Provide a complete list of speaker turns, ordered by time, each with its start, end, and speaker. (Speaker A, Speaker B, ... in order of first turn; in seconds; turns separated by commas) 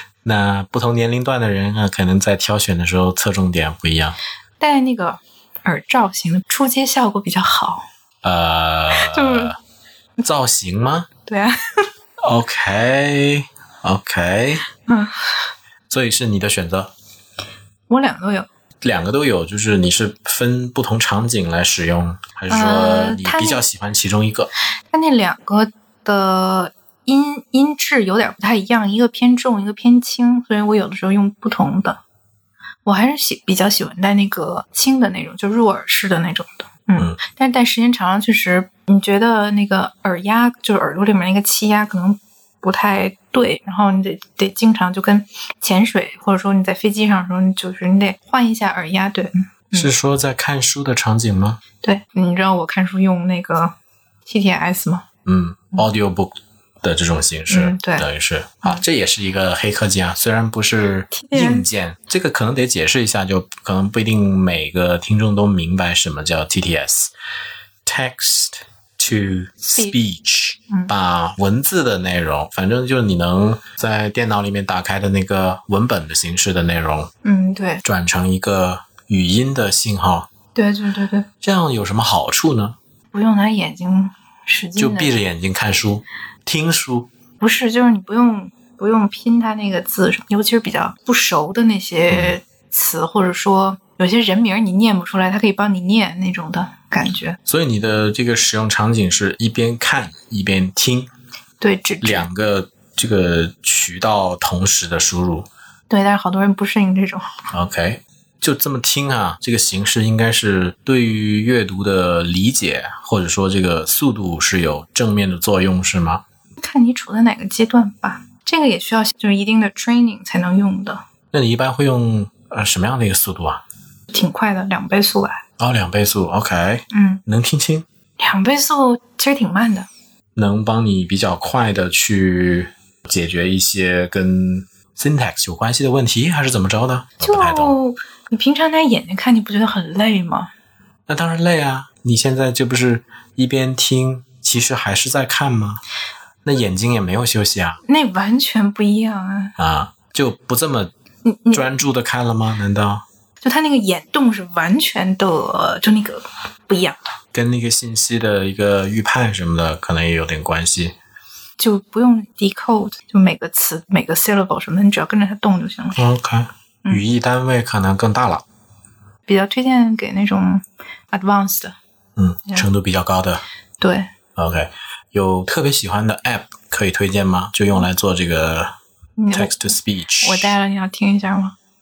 Speaker A: 0.2-4.2, Speaker B: 4.6-7.9, Speaker A: 8.2-9.5, Speaker B: 8.9-9.5, Speaker A: 10.2-11.1, Speaker B: 11.3-11.8, Speaker A: 12.3-14.6, Speaker B: 14.8-15.3, Speaker A: 15.9-16.9, Speaker B: 17.9-18.5, Speaker A: 18.8-24.5, Speaker B: 22.5-23.6, Speaker B: 24.9-32.0, Speaker B: 32.8-49.9, Speaker A: 49.7-51.6, Speaker B: 51.8-53.7, Speaker B: 54.2-55.0, Speaker A: 55.2-67.1, Speaker B: 57.5-58.1, Speaker B: 61.1-61.7, Speaker A: 67.8-77.1, Speaker B: 77.2-77.8, Speaker A: 77.8-80.3, Speaker B: 80.5-81.3, Speaker A: 81.4-82.8, Speaker B: 83.1-85.1, Speaker A: 84.8-87.1, Speaker B: 87.4-97.4, Speaker A: 92.1-92.4, Speaker A: 97.5-101.1, Speaker B: 101.6-102.3, Speaker A: 102.0-105.5, Speaker B: 105.9-107.4, Speaker A: 107.5-116.2, Speaker B: 116.6-121.0, Speaker A: 121.3-123.6, Speaker B: 124.1-125.4, Speaker A: 125.6-127.8, Speaker B: 126.9-127.2, Speaker B: 128.2-129.9, Speaker A: 130.3-137.7, Speaker B: 137.2-140.5, Speaker A: 141.1-145.8, Speaker A: 146.4-147.8, Speaker B: 147.8-149.5, Speaker A: 149.6-150.9, Speaker B: 151.2-151.7, Speaker A: 151.5-153.0, Speaker B: 153.4-157.1, Speaker A: 157.3-160.9, Speaker B: 161.6-166.0, Speaker A: 165.9-168.4, Speaker B: 169.2-171.8, Speaker A: 172.2-173.4, Speaker B: 173.8-174.1, Speaker A: 174.3-178.7, Speaker B: 179.2-181.6, Speaker A: 179.3-180.5